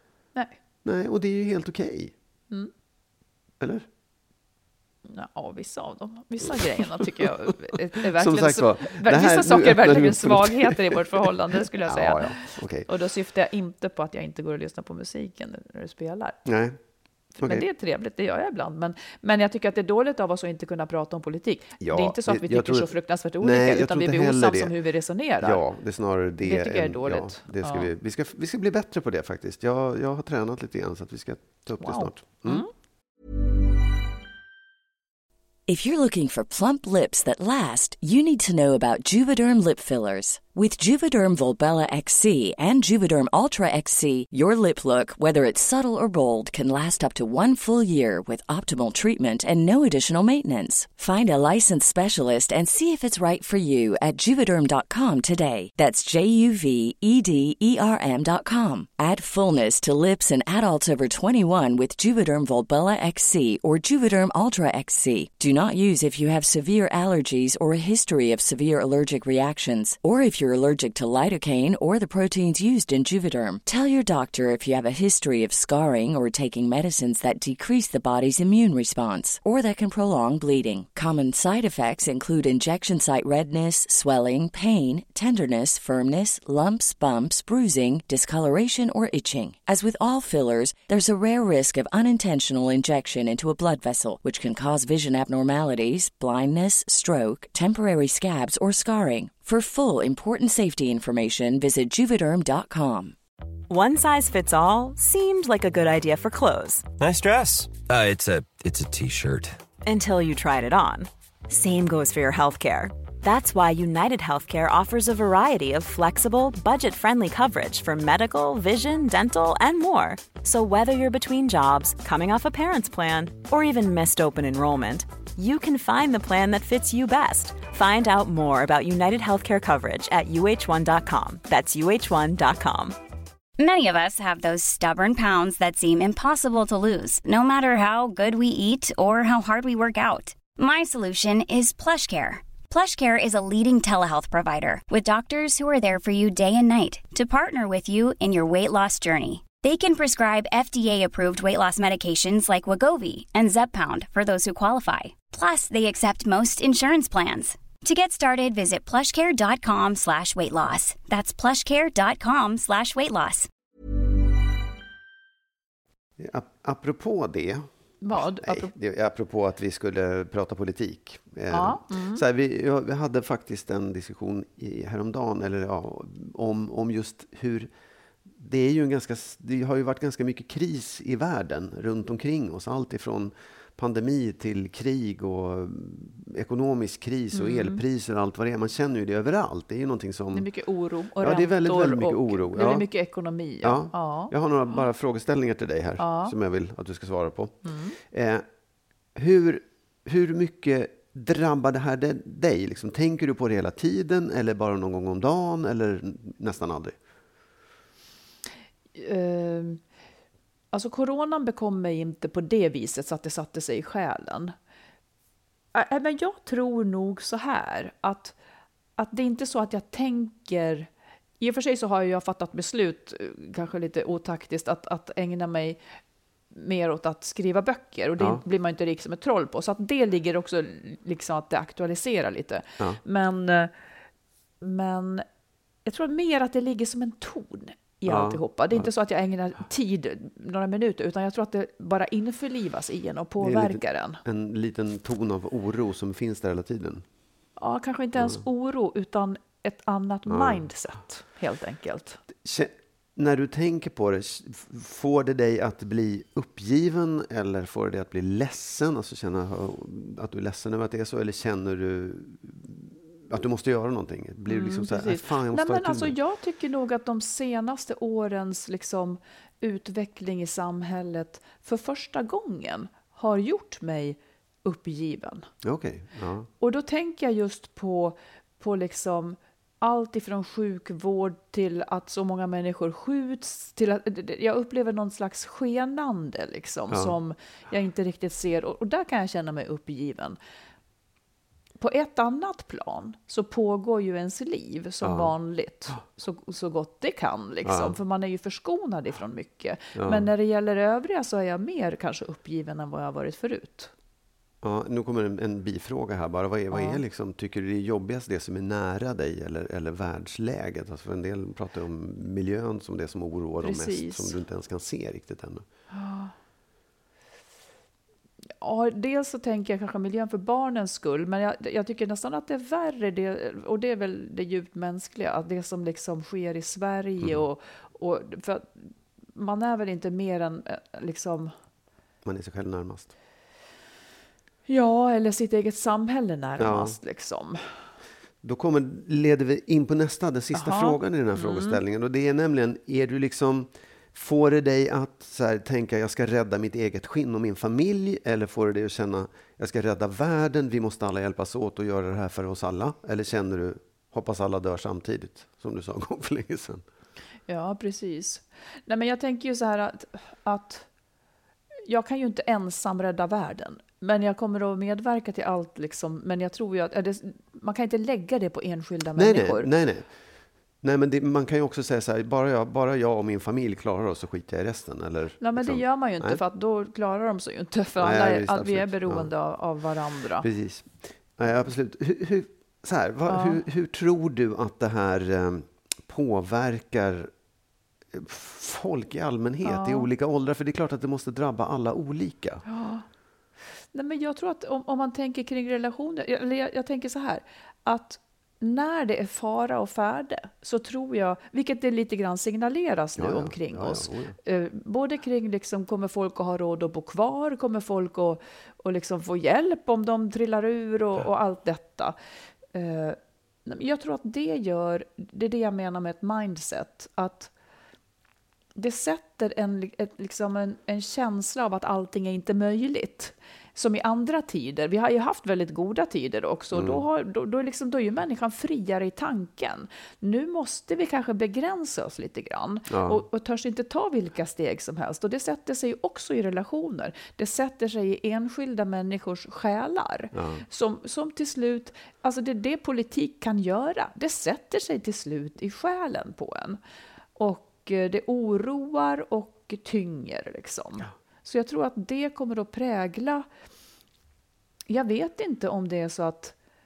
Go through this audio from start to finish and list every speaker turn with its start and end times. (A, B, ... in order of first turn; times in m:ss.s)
0:00.8-0:02.1 A
0:03.6-0:03.9 A
0:05.1-0:16.4 B
0:06.6-0:07.3 A
0:08.1-0:12.9 A
0:16.5-0:16.8 A
0:17.4-0:25.6 B
0:21.8-0:24.7 A
0:25.4-0:32.7 A
0:26.4-0:27.9 B
0:31.8-0:32.7 B
0:35.7-1:43.2 C
1:43.7-1:46.9 D
1:47.0-1:49.6 E
1:49.8-2:13.0 D
2:13.6-2:43.5 F
2:46.2-2:57.7 A
2:48.0-2:48.7 B
2:51.5-2:52.2 B
2:58.4-3:10.5 A
3:07.3-3:07.8 B
3:10.3-3:14.3 B
3:11.2-3:12.9 A
3:13.6-3:18.4 A
3:16.0-3:16.4 B
3:17.6-3:18.0 B
3:19.2-3:27.0 A
3:29.0-3:29.8 B
3:30.7-3:34.5 B
3:35.7-3:38.4 B
3:39.0-3:40.9 B
3:41.4-3:45.8 B
3:46.5-3:53.7 B
3:54.6-3:55.2 B
3:55.8-4:04.2 B
3:58.1-3:58.9 A
4:03.4-4:07.0 A
4:07.6-4:12.2 B
4:10.3-4:10.7 A
4:12.4-4:26.2 A
4:24.5-4:35.5 B
4:35.6-4:36.5 A
4:36.6-4:50.4 B
4:46.9-4:47.2 A
4:51.8-5:03.9 B
4:55.0-4:55.3 A
4:57.6-4:58.0 A
5:00.0-5:00.3 A
5:04.6-5:15.6 A
5:06.7-5:07.0 B
5:13.6-5:14.4 B
5:15.9-5:16.3 B
5:18.6-5:31.5 B
5:32.2-5:33.1 A
5:34.7-5:37.6 B
5:36.6-5:37.0 A
5:38.4-5:56.8 A
5:40.5-5:41.8 B
5:57.5-6:00.9 B
6:01.9-6:09.7 B
6:09.2-6:10.1 A
6:10.8-6:16.4 A
6:15.4-6:20.5 B
6:18.0-6:19.3 A
6:20.4-6:27.3 A
6:23.3-6:23.6 B
6:28.1-6:32.6 A
6:29.6-6:30.1 B
6:32.7-6:33.0 B
6:33.9-6:52.2 B
6:43.2-6:44.4 A
6:52.7-6:57.5 B
6:58.8-7:26.8 B
7:06.7-7:07.0 A
7:12.9-7:13.2 A
7:20.3-7:20.6 A
7:27.4-7:33.5 B
7:34.9-7:36.6 B